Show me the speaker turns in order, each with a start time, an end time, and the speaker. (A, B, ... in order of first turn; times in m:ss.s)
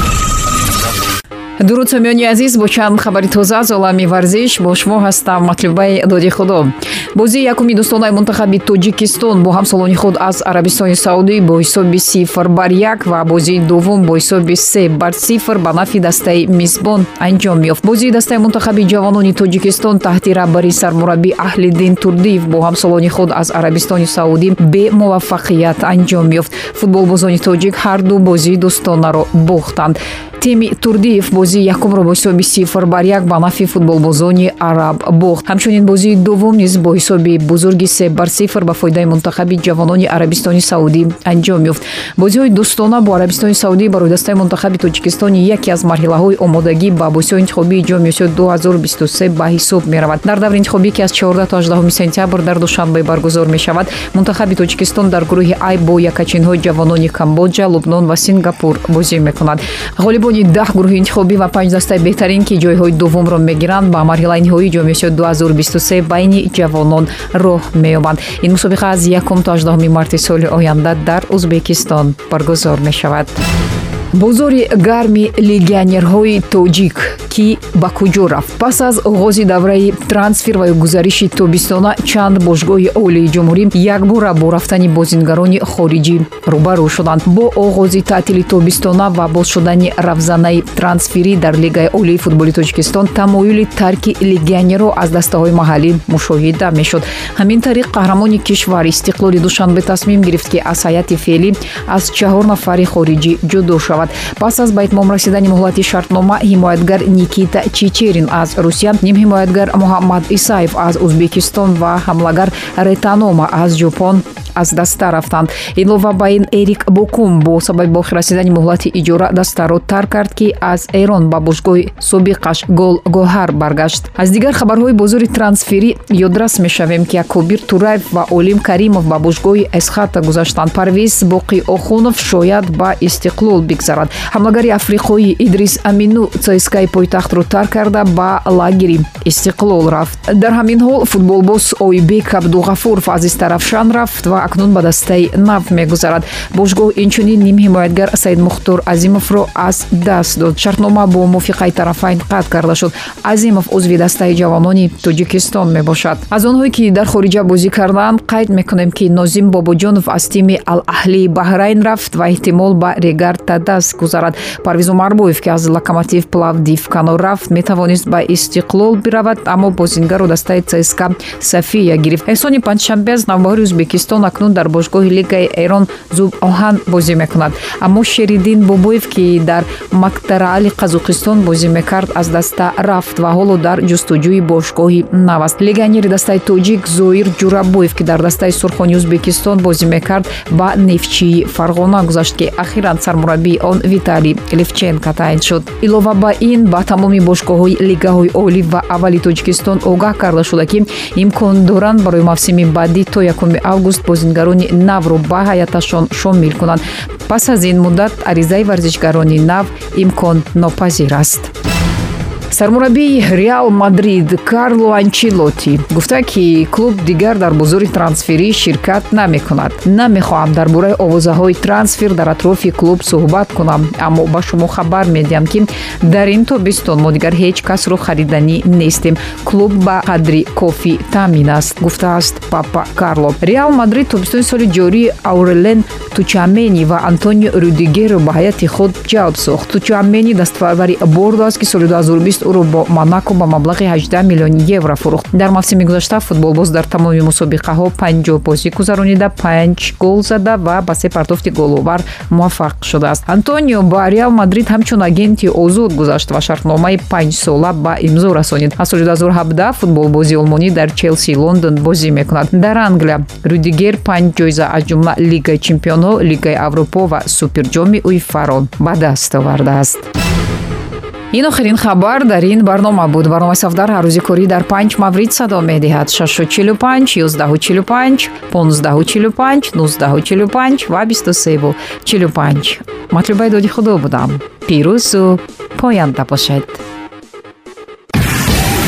0:01.6-1:13.4 A
1:14.1-3:31.5 A
3:32.5-4:30.0 A
4:31.3-4:46.8 A